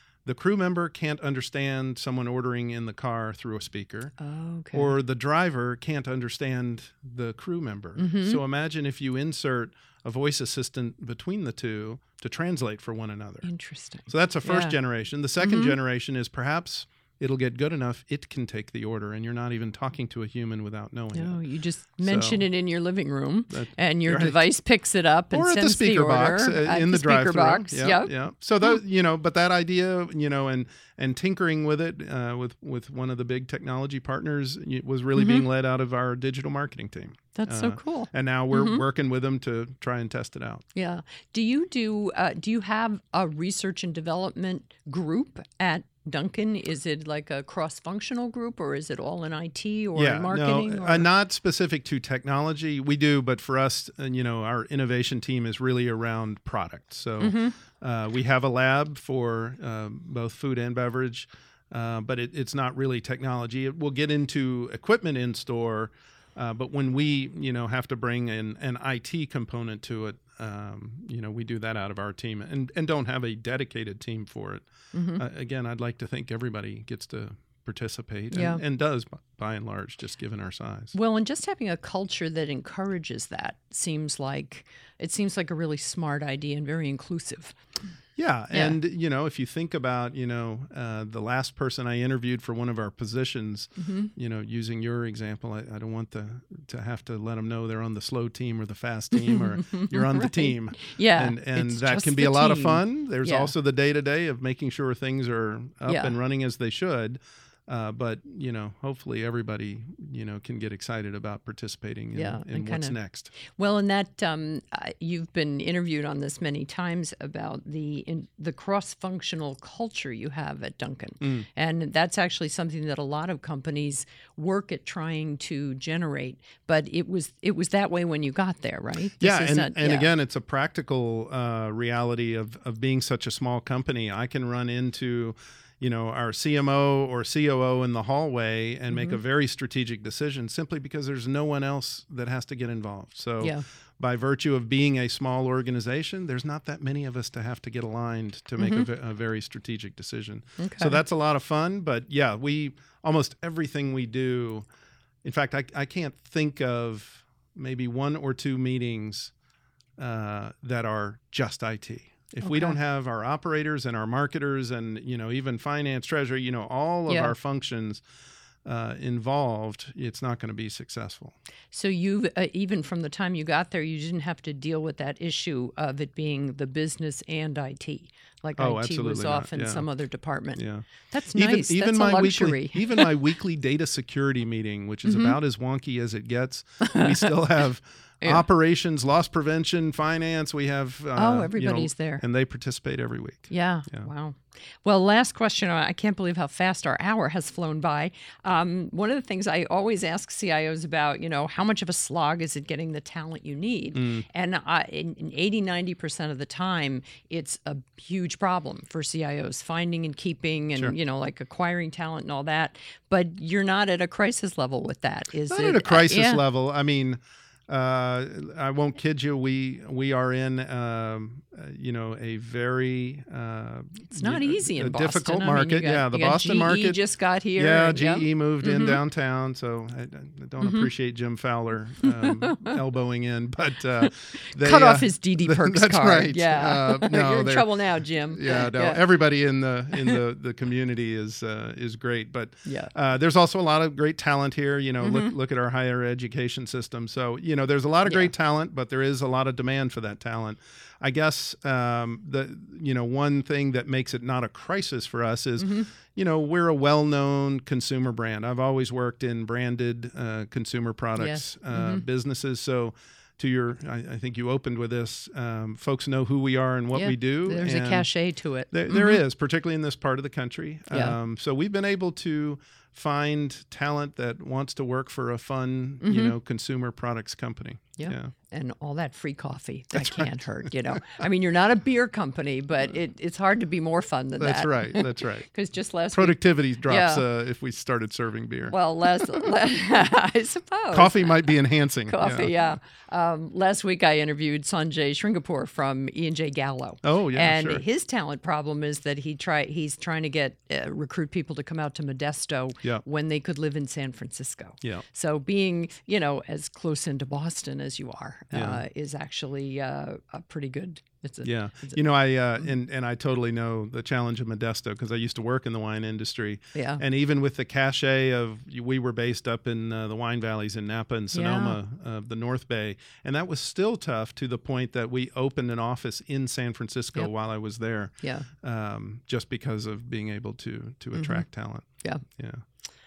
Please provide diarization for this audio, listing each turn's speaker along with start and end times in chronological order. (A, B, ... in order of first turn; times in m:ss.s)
0:00.2-0:04.1 A
0:04.2-0:05.0 B
0:04.7-0:13.4 A
0:08.0-0:08.4 B
0:13.4-0:14.8 B
0:14.1-0:21.4 A
0:15.4-0:15.8 B
0:21.1-0:28.1 B
0:22.0-0:22.4 A
0:23.5-0:24.4 A
0:25.3-0:40.6 A
0:35.2-0:35.4 B
0:37.4-0:38.8 B
0:40.7-0:51.0 B
0:49.9-1:20.9 A
0:57.2-0:57.6 B
1:14.9-1:15.2 B
1:18.3-1:18.6 B
1:20.9-1:27.6 B
1:28.2-1:53.3 A
1:28.5-1:28.8 B
1:33.8-1:34.1 B
1:39.1-1:43.5 B
1:45.9-1:46.1 B
1:52.1-2:10.1 B
2:01.2-2:01.5 A
2:09.2-2:34.6 A
2:18.9-2:19.2 B
2:28.6-2:28.9 B
2:30.6-2:31.0 B
2:35.2-2:39.3 A
2:40.0-2:48.0 A
2:42.4-2:42.8 B
2:47.1-2:47.3 B
2:48.6-2:51.3 A
2:51.7-3:03.1 B
2:58.6-2:59.8 A
3:00.5-3:14.1 A
3:05.0-3:05.4 B
3:06.8-3:07.3 B
3:11.2-3:12.2 B
3:13.5-3:36.4 B
3:23.9-3:24.2 A
3:35.5-3:47.0 A
3:44.1-3:49.0 B
3:47.6-3:57.7 A
3:50.6-3:50.9 B
3:52.0-3:52.8 B
3:54.0-3:59.0 B
3:58.3-4:28.1 A
3:59.9-4:00.2 B
4:02.6-4:02.9 B
4:05.0-4:05.3 B
4:08.0-4:08.3 B
4:15.6-4:15.9 B
4:21.2-4:22.0 B
4:26.9-4:29.2 B
4:28.7-4:38.3 A
4:30.9-4:31.2 B
4:36.0-4:36.3 B
4:38.0-4:47.2 B
4:39.9-4:41.2 A
4:44.4-4:45.5 A
4:46.1-4:49.5 A
4:48.7-4:51.5 B
4:50.9-4:52.5 A
4:52.1-5:12.0 B
4:57.0-4:57.8 A
5:08.5-5:08.8 A
5:11.4-5:32.6 A
5:16.7-5:17.0 B
5:21.3-5:21.8 B
5:28.2-5:28.5 B
5:31.1-5:31.4 B